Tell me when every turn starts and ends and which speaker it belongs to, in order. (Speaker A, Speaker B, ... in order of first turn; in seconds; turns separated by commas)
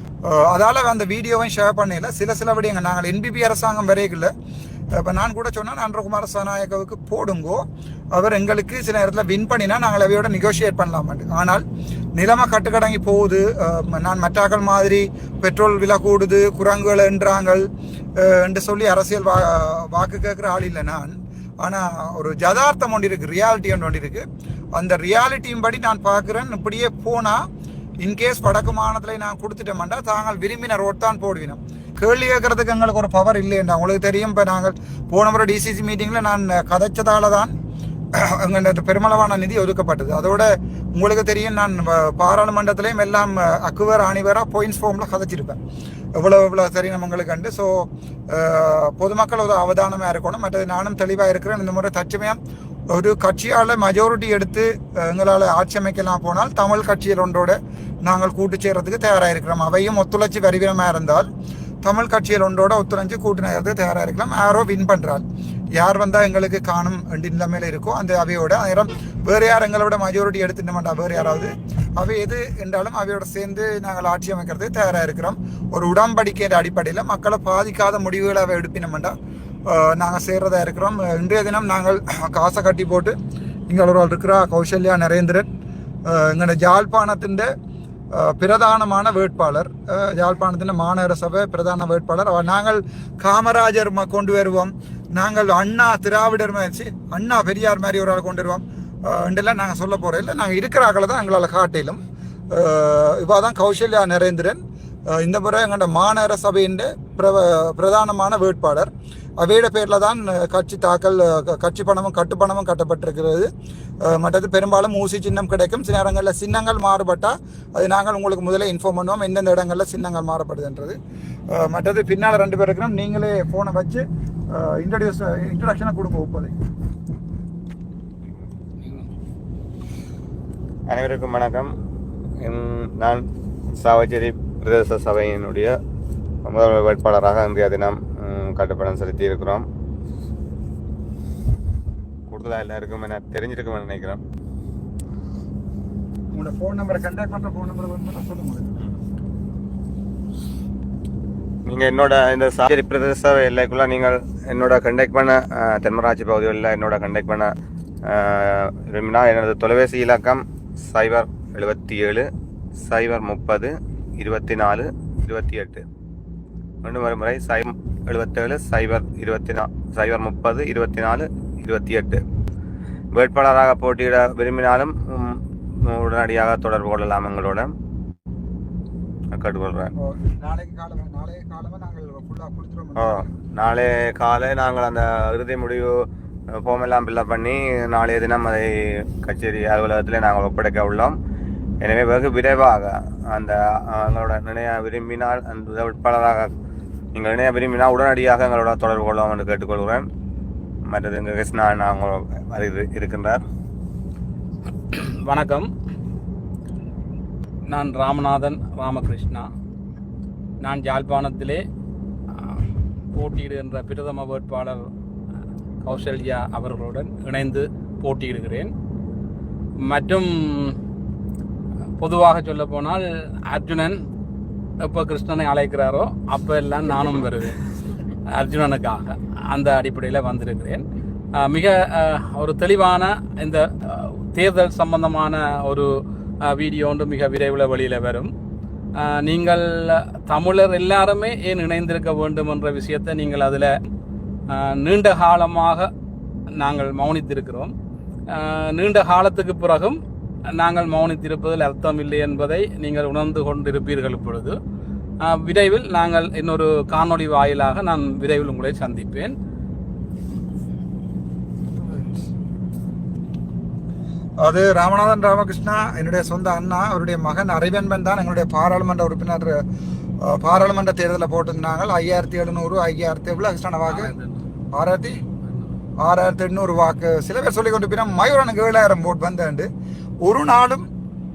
Speaker A: 0.2-4.3, Speaker A: 4.9-11.6, Speaker A: 12.2-17.7, Speaker A: 18.2-27.5, Speaker A: 28.0-37.5, Speaker A: 38.2-45.6, Speaker A: 46.2-52.4, Speaker A: 52.9-61.3, Speaker A: 61.8-79.1, Speaker A: 79.7-83.2, Speaker A: 83.7-85.5, Speaker A: 86.1-87.5, Speaker A: 88.1-113.5, Speaker A: 114.0-121.0, Speaker A: 121.5-126.5, Speaker B: 130.9-131.8, Speaker B: 132.4-133.2, Speaker B: 133.8-135.8, Speaker B: 136.4-139.7, Speaker B: 142.3-144.2, Speaker A: 146.3-148.8, Speaker B: 151.7-157.5, Speaker B: 158.1-162.3, Speaker B: 162.8-165.8, Speaker B: 166.8-172.2, Speaker B: 173.1-177.7, Speaker B: 179.3-179.9, Speaker A: 180.0-183.4, Speaker B: 183.0-185.9, Speaker B: 186.6-191.2, Speaker B: 191.8-196.5, Speaker B: 197.1-200.1, Speaker B: 200.9-203.4, Speaker C: 204.9-205.7, Speaker C: 207.7-209.5, Speaker C: 210.6-211.6, Speaker C: 213.1-214.8, Speaker C: 215.8-218.7, Speaker C: 219.9-220.8, Speaker C: 222.0-224.0, Speaker C: 224.8-227.6, Speaker C: 228.3-230.8, Speaker C: 231.4-235.9, Speaker C: 236.4-238.3, Speaker C: 239.0-243.7, Speaker C: 244.5-245.9, Speaker C: 246.6-247.7, Speaker C: 248.3-250.0, Speaker C: 250.6-254.6, Speaker C: 255.2-259.3, Speaker A: 264.4-269.6, Speaker A: 270.2-274.1, Speaker C: 273.9-274.4, Speaker A: 274.7-275.2, Speaker C: 275.4-275.7, Speaker A: 276.0-279.7, Speaker A: 280.2-280.9